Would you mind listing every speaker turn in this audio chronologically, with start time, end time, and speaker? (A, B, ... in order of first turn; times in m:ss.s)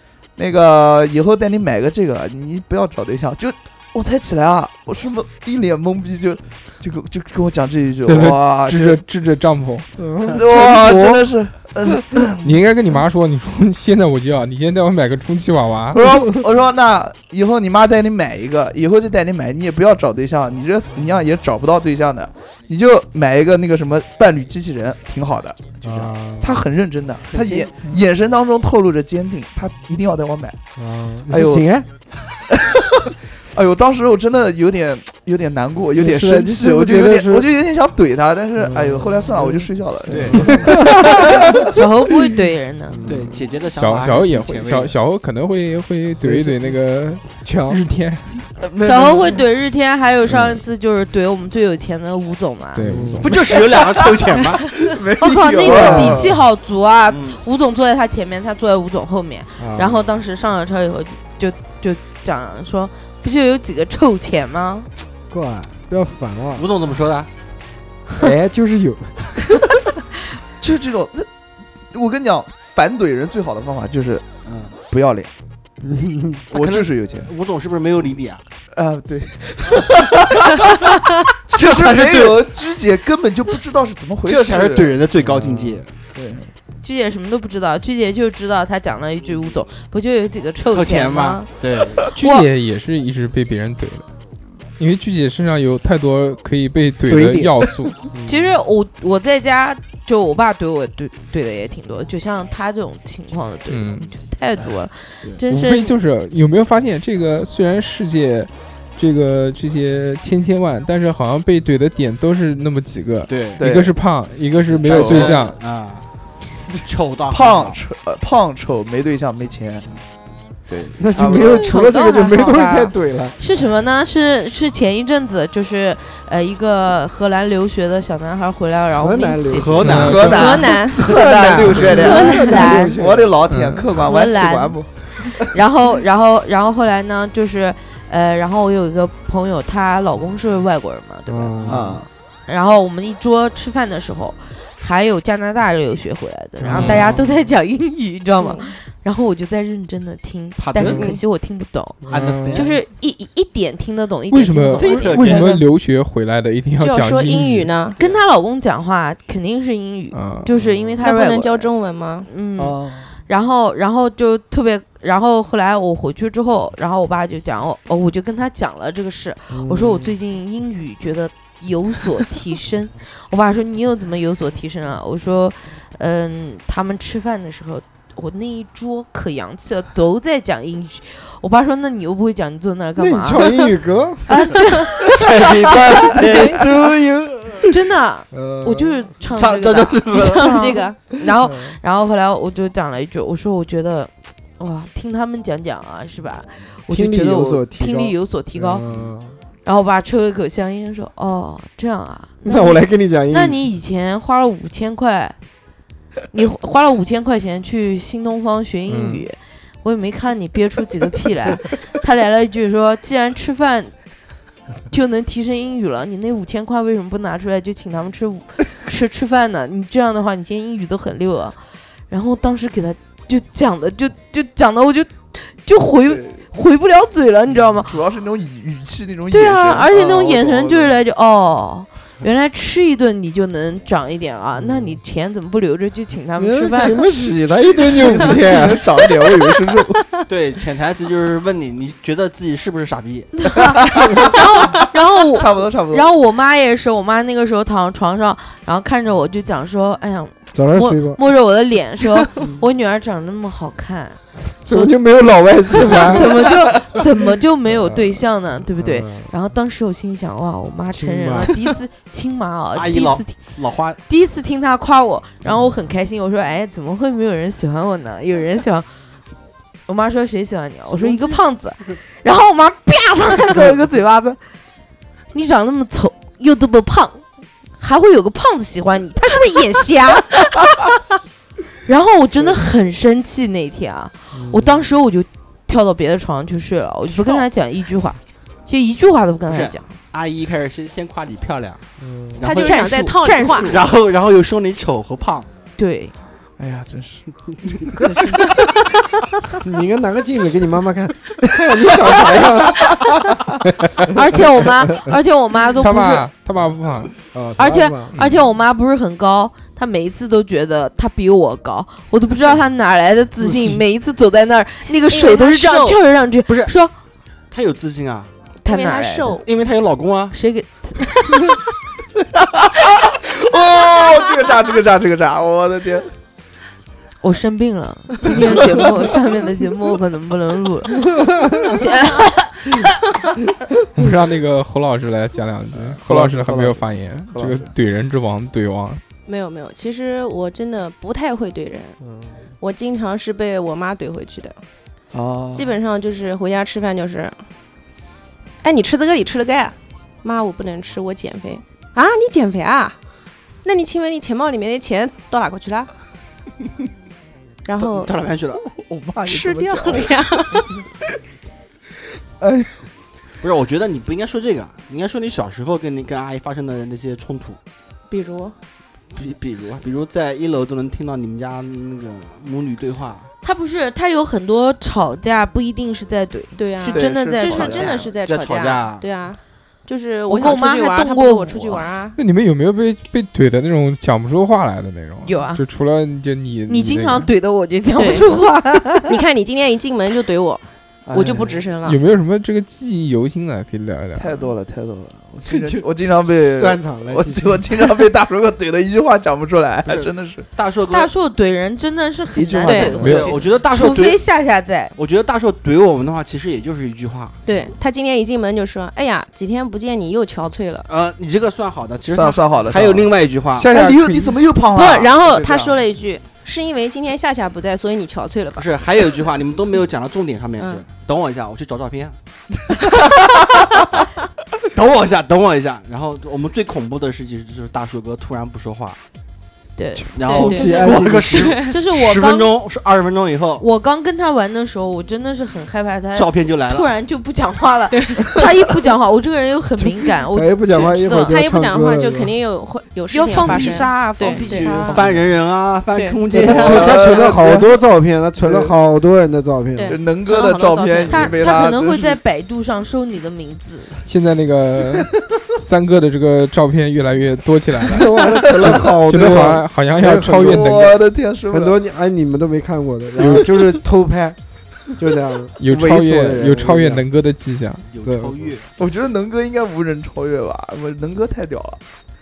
0:00.4-0:09.0 A
0:08.1-0:09.9 B
0:10.0-0:11.1 C
0:10.3-0:12.5 A
0:12.4-0:16.0 B
0:15.9-0:25.8 A
0:25.8-0:26.6 C
0:25.8-0:26.1 D
0:26.4-0:30.6 A
0:27.3-0:27.7 D
0:30.8-0:31.9 C
0:31.3-0:31.6 A
0:33.5-0:41.7 A
0:36.0-0:37.5 C
0:38.6-0:41.6 C
0:40.1-0:40.5 D
0:41.7-0:43.0 E
0:42.9-0:43.4 C
0:43.1-0:45.0 D
0:43.8-0:48.4 B
0:46.2-0:47.8 C
0:48.6-0:49.4 A
0:48.8-0:52.9 E
0:52.8-0:53.3 B
0:52.8-0:53.4 C
0:53.2-0:54.7 D
0:53.3-0:54.2 A
0:55.0-0:56.4 A
0:55.0-0:56.4 C
0:55.2-1:04.9 E
0:57.1-0:57.4 D
0:59.6-1:00.0 C
1:05.3-1:06.6 C
1:06.6-1:07.3 D
1:08.2-1:09.3 C
1:10.6-1:11.3 A
1:11.9-1:14.2 A
1:14.4-1:14.7 D
1:14.9-1:15.3 A
1:15.8-1:16.4 C
1:16.5-1:18.4 D
1:16.5-1:17.3 A
1:18.7-1:20.9 A
1:21.5-1:22.4 D
1:21.5-1:24.9 A
1:24.2-1:25.9 D
1:25.2-1:25.8 C
1:26.2-1:26.5 A
1:26.8-1:31.5 E
1:30.7-1:32.0 D
1:32.2-1:34.1 B
1:32.2-1:32.5 E
1:34.8-1:37.9 B
1:37.1-1:38.6 C
1:38.2-1:46.0 E
1:43.7-1:44.1 B
1:45.5-1:55.6 B
1:53.3-1:53.6 D
1:53.6-1:54.0 A
1:54.8-1:56.1 D
1:54.8-1:55.4 A
1:56.7-1:57.8 D
1:57.3-1:59.9 A
2:00.7-2:01.7 A
2:01.0-2:03.4 C
2:01.3-2:10.8 E
2:01.4-2:02.1 F
2:08.9-2:10.3 C
2:09.5-2:10.3 D
2:09.8-2:10.4 B
2:09.8-2:15.3 A
2:10.3-2:11.2 F
2:10.9-2:13.4 C
2:11.8-2:13.0 E
2:11.9-2:12.7 F
2:13.5-2:13.8 B
2:14.0-2:21.6 E
2:21.3-2:22.1 C
2:21.7-2:22.1 A
2:22.5-2:35.5 E
2:26.6-2:27.4 C
2:26.7-2:27.1 B
2:28.4-2:28.7 F
2:30.6-2:31.1 D
2:30.8-2:31.1 C
2:30.9-2:31.2 F
2:32.0-2:32.7 C
2:32.1-2:32.7 D
2:34.3-2:37.7 B
2:34.6-2:35.6 D
2:36.8-2:38.0 F
2:38.0-2:41.7 E
2:40.1-2:40.5 B
2:40.6-2:41.0 C
2:41.0-2:42.3 F
2:42.2-3:03.7 E
2:42.6-2:43.1 A
2:49.5-2:50.1 C
3:03.0-3:04.4 C
3:04.3-3:06.2 E
3:05.2-3:07.7 D
3:06.2-3:06.6 F
3:07.7-3:18.8 E
3:08.3-3:09.1 C
3:09.3-3:10.6 D
3:10.1-3:11.0 F
3:11.4-3:11.8 C
3:16.9-3:19.4 C
3:19.6-3:25.4 E
3:22.4-3:23.6 C
3:26.3-3:33.9 E
3:28.9-3:29.3 B
3:34.9-3:41.6 E
3:42.1-3:48.0 E
3:46.0-3:46.4 A
3:47.8-3:51.0 A
3:49.3-3:57.1 E
3:54.6-3:55.0 C
3:56.4-3:59.3 C
3:57.1-4:00.0 A
4:00.3-4:03.6 D
4:03.5-4:15.0 E
4:03.6-4:04.3 A
4:04.6-4:04.9 F
4:05.3-4:06.1 A
4:10.5-4:11.2 C
4:14.4-4:16.4 C
4:15.7-4:23.4 E
4:17.7-4:18.2 C
4:18.8-4:19.3 C
4:20.9-4:21.6 C
4:22.7-4:24.0 D
4:24.1-4:28.9 E
4:29.9-4:34.4 E
4:30.9-4:31.4 D
4:35.3-4:37.2 E
4:37.8-4:40.9 E
4:41.8-4:49.8 E
4:44.3-4:44.9 C
4:49.5-4:51.8 D
4:52.0-4:52.4 C
4:52.4-4:52.8 D
4:52.4-4:53.8 F
4:52.5-4:53.8 E
4:53.6-4:55.5 D
4:55.8-4:56.1 E
4:56.6-4:58.0 A
4:58.0-4:58.4 E
4:59.6-5:03.0 C
5:04.1-5:06.3 E
5:04.4-5:05.1 C
5:05.8-5:07.1 B
5:07.3-5:08.2 C
5:07.6-5:16.9 E
5:13.4-5:13.8 C
5:15.1-5:16.0 F
5:16.5-5:16.7 D
5:17.5-5:18.3 D
5:18.6-5:19.4 F
5:18.6-5:19.4 E
5:19.4-5:20.4 D
5:20.3-5:21.2 E
5:22.7-5:26.1 A
5:27.2-5:32.9 E
5:28.2-5:29.1 A
5:34.0-5:39.0 B
5:35.7-5:36.8 C
5:37.3-5:37.7 A
5:39.3-5:42.0 F
5:42.0-5:42.4 C
5:42.6-5:44.6 F
5:45.1-5:45.8 A
5:45.5-5:47.4 F
5:48.6-5:53.0 F
5:53.6-5:55.9 F
5:57.7-5:58.1 F
5:57.8-5:58.6 D
5:58.6-6:00.1 A
5:59.2-6:00.7 F
6:02.4-6:02.7 A
6:03.4-6:07.6 D
6:08.1-6:08.6 F
6:09.1-6:13.3 D
6:13.4-6:18.2 E
6:16.6-6:22.2 F
6:16.8-6:18.0 A
6:18.2-6:19.1 D
6:20.3-6:21.9 E
6:22.2-6:27.3 B
6:25.2-6:25.6 E
6:26.7-6:29.2 E
6:28.0-6:28.3 F
6:29.1-6:32.0 F
6:31.1-6:31.7 A
6:31.8-6:34.4 B
6:34.2-6:40.4 A
6:35.5-6:35.8 C
6:36.5-6:37.7 C
6:39.8-6:41.1 D
6:40.9-6:45.0 E
6:42.4-6:43.3 A
6:42.6-6:43.1 F
6:43.0-6:43.3 B
6:43.0-6:44.2 D
6:45.0-6:47.4 D
6:47.4-6:50.9 F
6:50.9-6:53.7 D
6:52.1-6:55.8 A
6:53.7-6:54.3 B
6:54.7-6:58.7 F
6:58.6-7:02.2 D
7:04.7-7:09.0 D
7:09.8-7:10.8 E
7:10.1-7:13.6 D
7:10.3-7:11.6 C
7:10.4-7:11.7 F
7:11.7-7:12.5 E
7:13.6-7:21.4 E
7:16.1-7:16.9 D
7:17.9-7:18.4 F
7:19.8-7:22.4 C
7:21.3-7:25.0 F
7:23.1-7:25.1 E
7:23.4-7:27.1 D
7:24.9-7:25.2 A
7:25.9-7:26.2 F
7:26.3-7:30.0 C
7:26.4-7:27.7 A
7:28.4-7:28.7 A
7:29.7-7:31.6 F
7:29.8-7:32.2 A
7:30.3-7:34.0 E
7:34.1-7:38.1 B
7:37.8-7:40.8 C
7:38.7-7:41.0 B
7:40.4-7:41.8 A
7:41.5-7:44.4 C
7:45.0-7:47.0 C
7:45.6-7:47.9 B
7:47.9-7:48.7 D
7:48.0-7:48.5 C
7:48.8-7:51.8 A